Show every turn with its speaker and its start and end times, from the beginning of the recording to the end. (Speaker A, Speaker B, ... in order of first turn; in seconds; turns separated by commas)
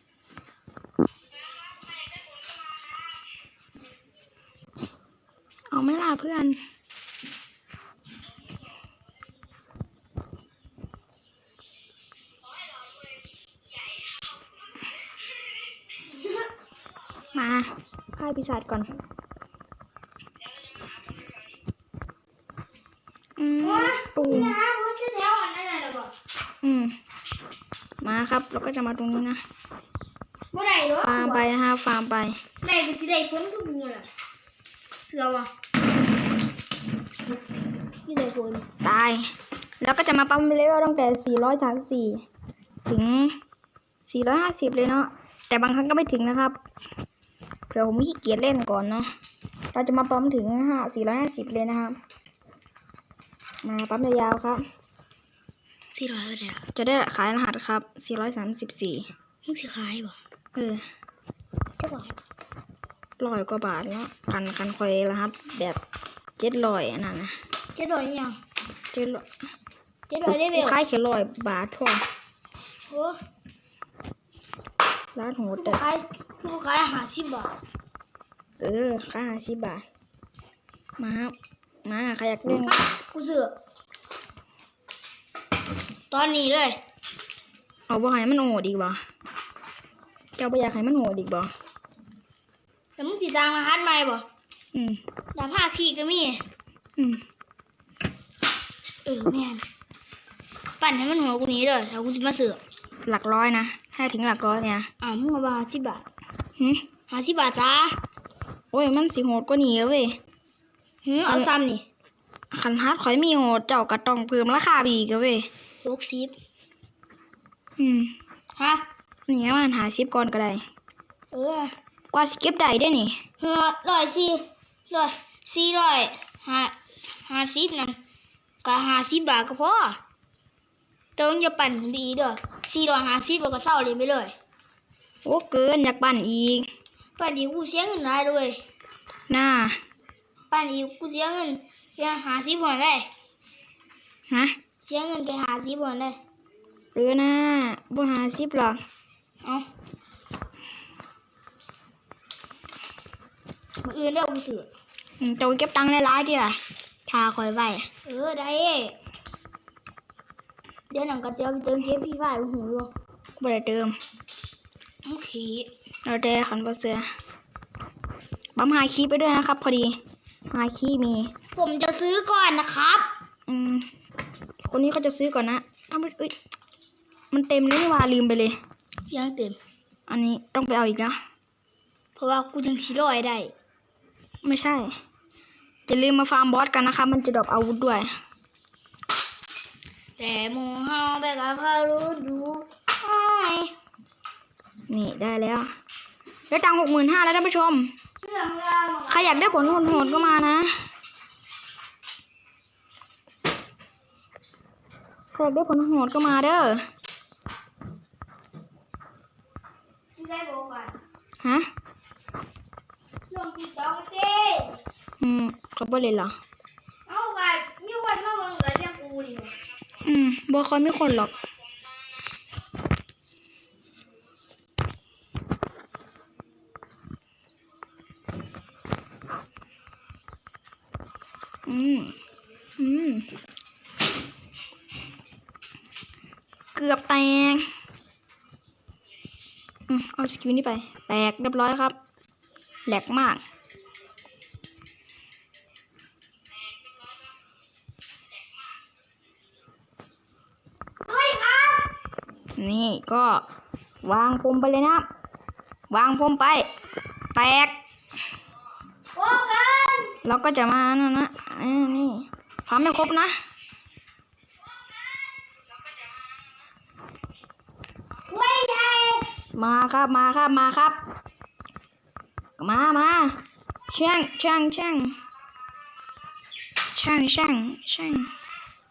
Speaker A: 5.7-6.6, Speaker B: 16.1-16.5, Speaker A: 17.3-18.9, Speaker A: 23.4-24.6, Speaker B: 23.6-26.1, Speaker A: 26.6-26.9, Speaker A: 28.0-29.4, Speaker B: 30.5-31.5, Speaker A: 31.0-32.4, Speaker B: 32.6-34.1, Speaker B: 35.0-35.5, Speaker B: 38.1-38.6, Speaker A: 38.8-39.3, Speaker A: 39.8-42.2, Speaker A: 42.9-43.4, Speaker A: 44.1-46.6, Speaker A: 47.7-49.1, Speaker A: 49.7-52.0, Speaker A: 53.6-54.6, Speaker B: 55.9-56.6, Speaker A: 56.8-59.1, Speaker B: 59.5-60.2, Speaker A: 60.5-60.8, Speaker B: 61.8-62.1, Speaker A: 63.2-65.8, Speaker A: 66.4-67.3, Speaker B: 67.8-68.4, Speaker A: 68.9-69.3, Speaker B: 70.1-70.8, Speaker A: 70.3-72.0, Speaker B: 72.9-73.2, Speaker A: 75.2-75.8, Speaker B: 75.6-77.5, Speaker A: 78.6-79.8, Speaker A: 81.0-82.8, Speaker B: 82.7-83.5, Speaker B: 86.1-86.8, Speaker A: 87.9-89.0, Speaker A: 90.4-91.5, Speaker B: 93.0-94.2, Speaker A: 94.7-95.0, Speaker B: 95.3-96.4, Speaker A: 97.0-97.2, Speaker B: 99.0-99.6, Speaker B: 100.8-102.6, Speaker A: 103.1-104.9, Speaker B: 105.0-106.0, Speaker A: 106.6-106.8, Speaker B: 107.1-108.0, Speaker A: 108.7-110.2, Speaker B: 111.0-111.8, Speaker A: 111.2-111.6, Speaker A: 112.5-115.5, Speaker B: 115.8-116.3, Speaker A: 117.8-118.1, Speaker B: 118.6-118.8, Speaker A: 119.3-120.6, Speaker B: 121.3-121.7, Speaker A: 122.1-123.2, Speaker B: 123.4-128.0, Speaker B: 128.6-130.0, Speaker B: 131.2-134.3, Speaker A: 135.2-136.7, Speaker B: 137.2-138.6, Speaker A: 139.3-139.8, Speaker B: 140.5-143.1, Speaker A: 144.3-144.6, Speaker B: 144.8-146.2, Speaker A: 146.9-148.8, Speaker B: 153.8-154.7, Speaker A: 155.2-156.6, Speaker B: 157.1-159.0, Speaker B: 160.9-162.9, Speaker A: 163.4-163.9, Speaker B: 165.1-165.7, Speaker A: 166.1-167.1, Speaker A: 168.6-170.0, Speaker A: 170.5-171.3, Speaker B: 171.6-173.1, Speaker A: 173.5-173.9, Speaker A: 174.7-176.3, Speaker A: 177.3-178.6, Speaker B: 179.1-179.6, Speaker A: 180.1-181.2, Speaker B: 182.2-183.5, Speaker A: 184.4-184.9, Speaker A: 185.9-188.1, Speaker B: 190.2-193.7, Speaker A: 194.9-195.7, Speaker A: 196.5-197.9, Speaker B: 198.2-200.5, Speaker A: 199.1-200.8, Speaker A: 205.3-206.8, Speaker B: 210.2-210.9, Speaker A: 211.4-211.7, Speaker B: 213.3-214.8, Speaker A: 215.2-216.3, Speaker B: 217.1-219.5, Speaker A: 220.0-221.4, Speaker A: 231.7-232.2, Speaker A: 232.8-233.3, Speaker A: 236.8-237.7, Speaker A: 239.9-242.0, Speaker A: 242.9-243.4, Speaker B: 251.1-251.9, Speaker A: 252.6-253.4, Speaker A: 254.0-255.1, Speaker A: 255.9-256.7, Speaker A: 257.4-257.8, Speaker B: 259.1-260.2, Speaker A: 260.2-263.3, Speaker B: 268.3-269.3, Speaker A: 269.5-271.0, Speaker A: 272.6-275.2, Speaker A: 276.9-278.3